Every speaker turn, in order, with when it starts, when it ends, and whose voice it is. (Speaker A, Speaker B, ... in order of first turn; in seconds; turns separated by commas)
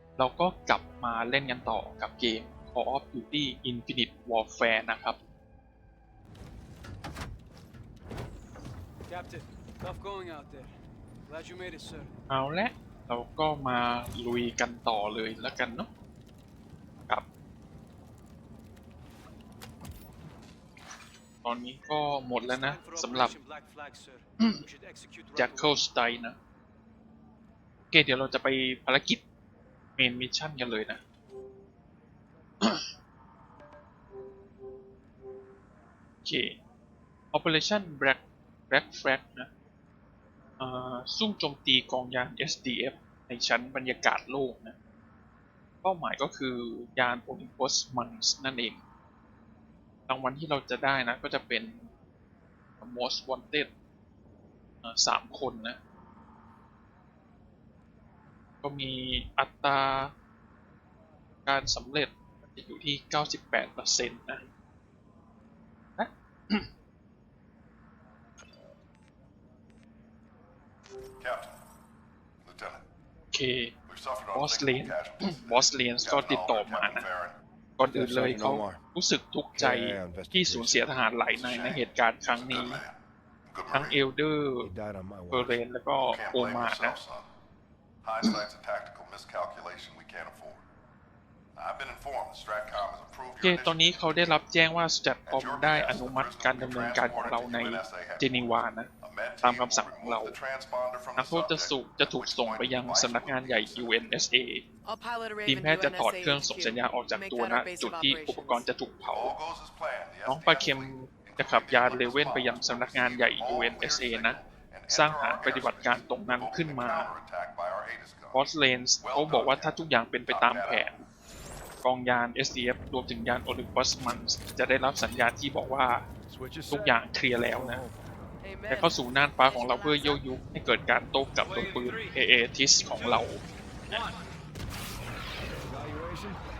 Speaker A: 0.2-5.2, Speaker B: 9.1-10.7, Speaker B: 11.3-12.1, Speaker A: 12.3-15.9, Speaker A: 21.4-23.3, Speaker B: 22.4-25.8, Speaker A: 25.3-26.4, Speaker A: 27.9-29.2, Speaker A: 30.0-31.0, Speaker A: 32.6-32.9, Speaker A: 36.2-36.6, Speaker A: 37.3-39.5, Speaker A: 40.6-44.8, Speaker A: 45.8-48.8, Speaker A: 50.1-51.9, Speaker A: 52.8-53.7, Speaker A: 54.8-55.8, Speaker A: 58.6-60.1, Speaker A: 61.5-64.5, Speaker A: 66.0-66.7, Speaker C: 71.2-71.6, Speaker C: 72.4-72.8, Speaker A: 73.3-73.8, Speaker C: 73.9-77.4, Speaker A: 74.3-77.1, Speaker A: 77.8-82.8, Speaker D: 77.8-78.8, Speaker D: 79.6-80.9, Speaker C: 81.0-83.0, Speaker C: 83.5-84.0, Speaker A: 83.7-84.7, Speaker D: 84.6-85.6, Speaker A: 85.3-87.0, Speaker C: 86.0-87.3, Speaker C: 88.0-90.6, Speaker C: 91.5-94.4, Speaker A: 93.4-98.9, Speaker C: 95.3-98.3, Speaker C: 99.0-103.9, Speaker A: 99.4-100.4, Speaker A: 101.2-104.6, Speaker E: 104.8-108.7, Speaker A: 105.5-109.3, Speaker C: 109.1-118.5, Speaker A: 110.2-117.1, Speaker A: 118.3-121.0, Speaker C: 119.0-120.9, Speaker A: 121.8-126.1, Speaker D: 126.3-127.9, Speaker A: 126.7-127.8, Speaker E: 128.4-130.2, Speaker A: 128.7-134.1, Speaker B: 131.4-132.2, Speaker B: 132.8-133.3, Speaker B: 133.9-134.3, Speaker D: 135.6-136.4